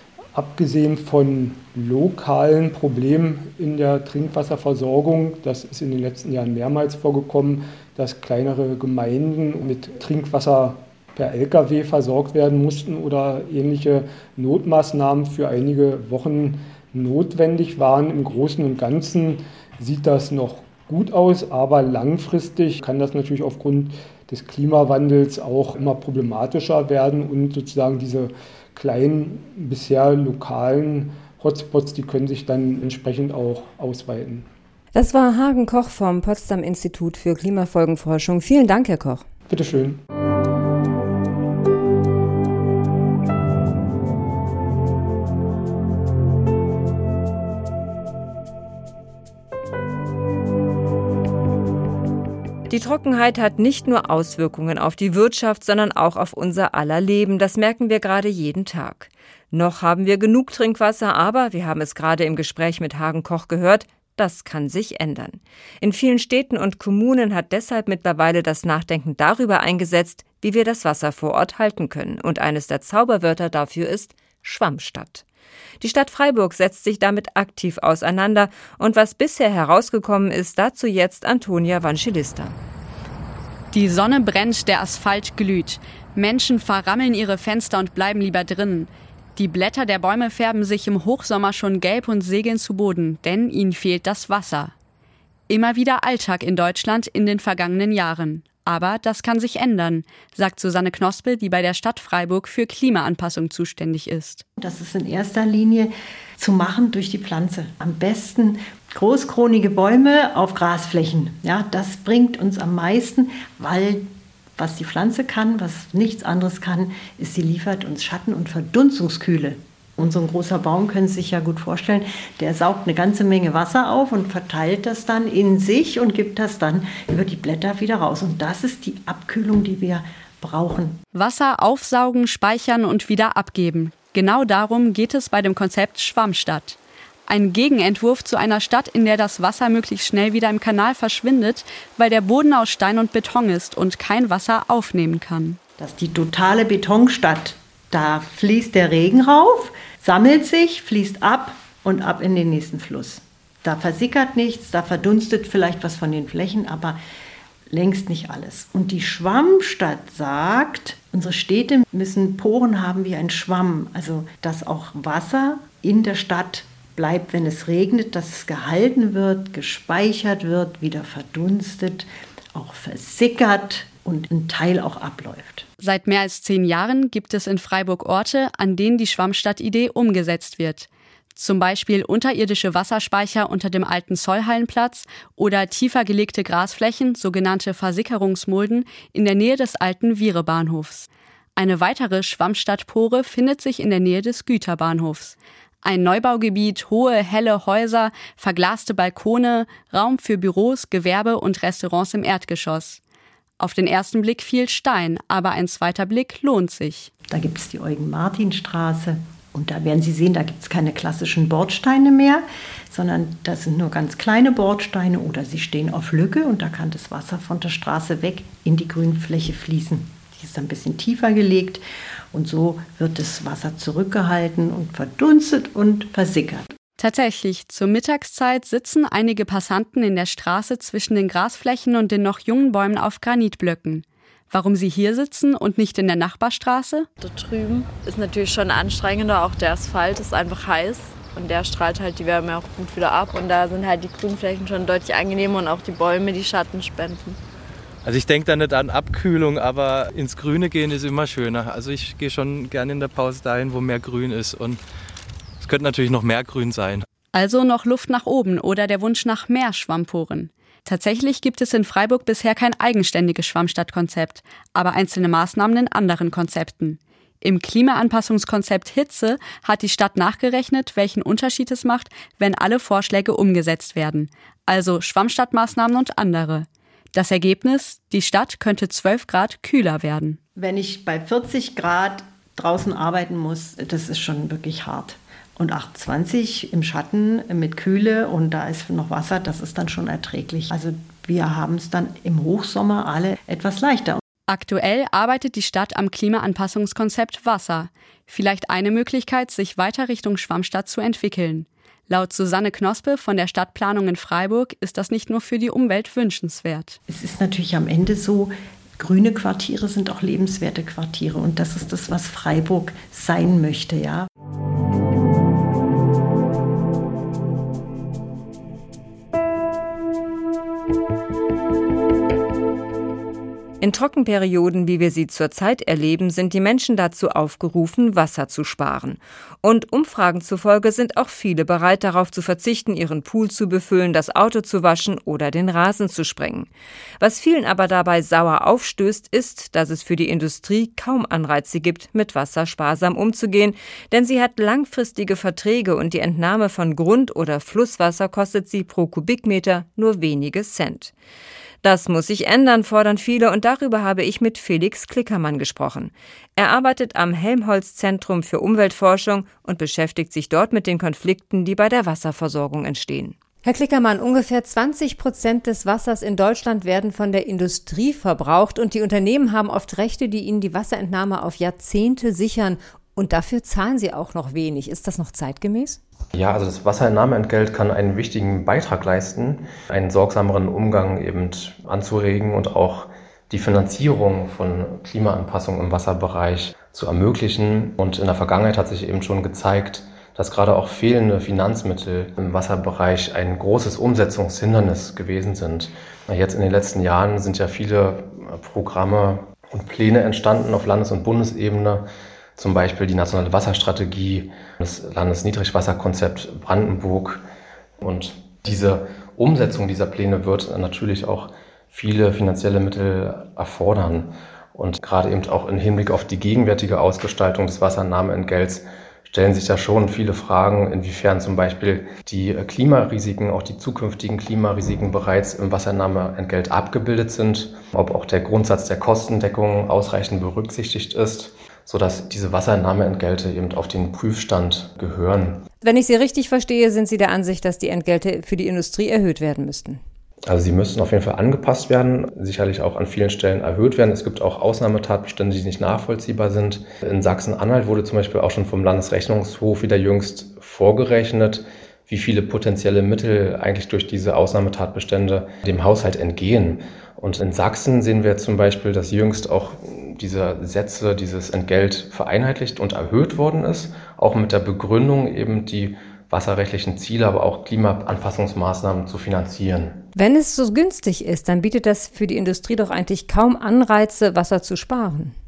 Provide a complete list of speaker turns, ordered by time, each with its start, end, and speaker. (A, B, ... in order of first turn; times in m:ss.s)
0:00.4-0:34.5 A
0:34.9-0:39.2 B
0:39.5-0:40.0 A
0:52.7-1:15.2 B
1:15.8-1:22.6 B
1:23.7-1:34.7 C
1:35.5-1:44.4 C
1:44.6-2:11.0 D
2:11.1-2:25.6 C
2:25.8-2:37.0 D
2:37.7-2:55.7 D
2:55.8-3:23.0 C
3:23.6-3:27.1 C
3:27.3-3:46.7 D
3:47.0-3:57.1 C
3:57.2-4:07.4 E
4:08.0-4:14.8 F
4:15.6-4:17.1 F
4:17.3-4:40.4 C
4:40.6-4:54.2 D
4:54.5-5:07.0 C
5:07.1-5:14.3 D
5:23.8-5:36.7 B
5:37.2-5:51.1 B
5:51.8-6:16.0 B
6:16.4-6:47.4 G
6:48.0-7:15.6 G
7:15.8-7:20.0 B
7:20.5-7:50.0 G
7:50.2-7:55.4 B